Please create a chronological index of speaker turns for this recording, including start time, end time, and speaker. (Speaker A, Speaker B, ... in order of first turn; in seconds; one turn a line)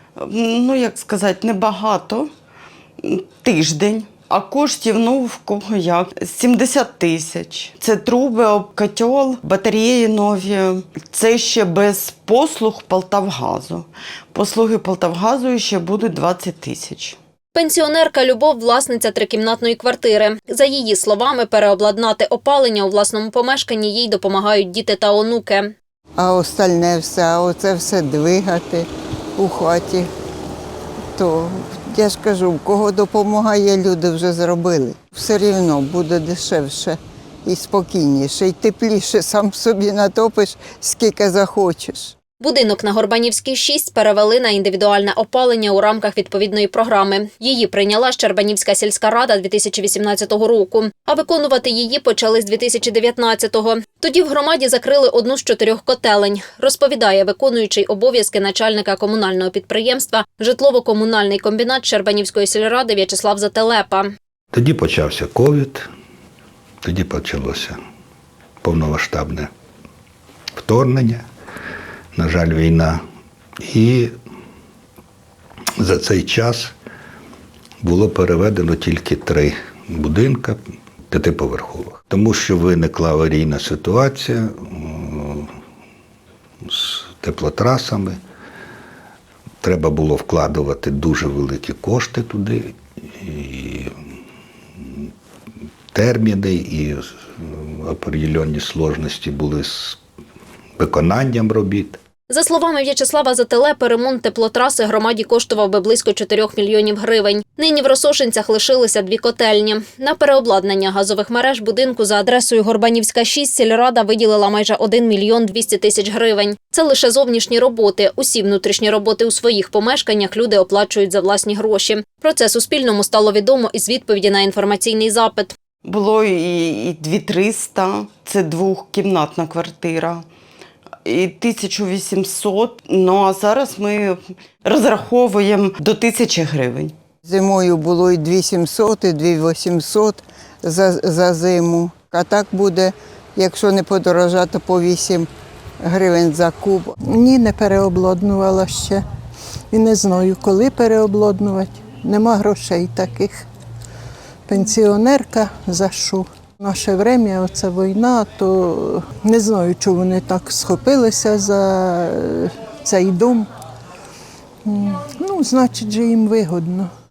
Speaker A: 0.2-2.3
Speaker A: 3.0-17.2
Speaker B: 17.6-25.7
Speaker C: 26.2-30.1
Speaker C: 31.1-42.1
Speaker B: 42.4-64.1
Speaker D: 64.5-65.9
Speaker D: 66.8-67.8
Speaker D: 68.6-69.5
Speaker D: 70.6-71.2
Speaker D: 72.2-73.0
Speaker D: 73.7-74.1
Speaker D: 75.8-76.7
Speaker D: 77.8-85.5
Speaker D: 86.7-88.2
Speaker D: 89.6-93.9
Speaker D: 95.9-100.0
Speaker D: 100.8-102.0
Speaker B: 102.3-125.5
Speaker A: 125.8-130.2
Speaker A: 131.1-136.9
Speaker C: 137.2-145.3
Speaker C: 145.8-146.9
Speaker E: 147.1-149.0
Speaker E: 149.7-153.5
Speaker E: 154.5-163.5
Speaker E: 164.7-166.9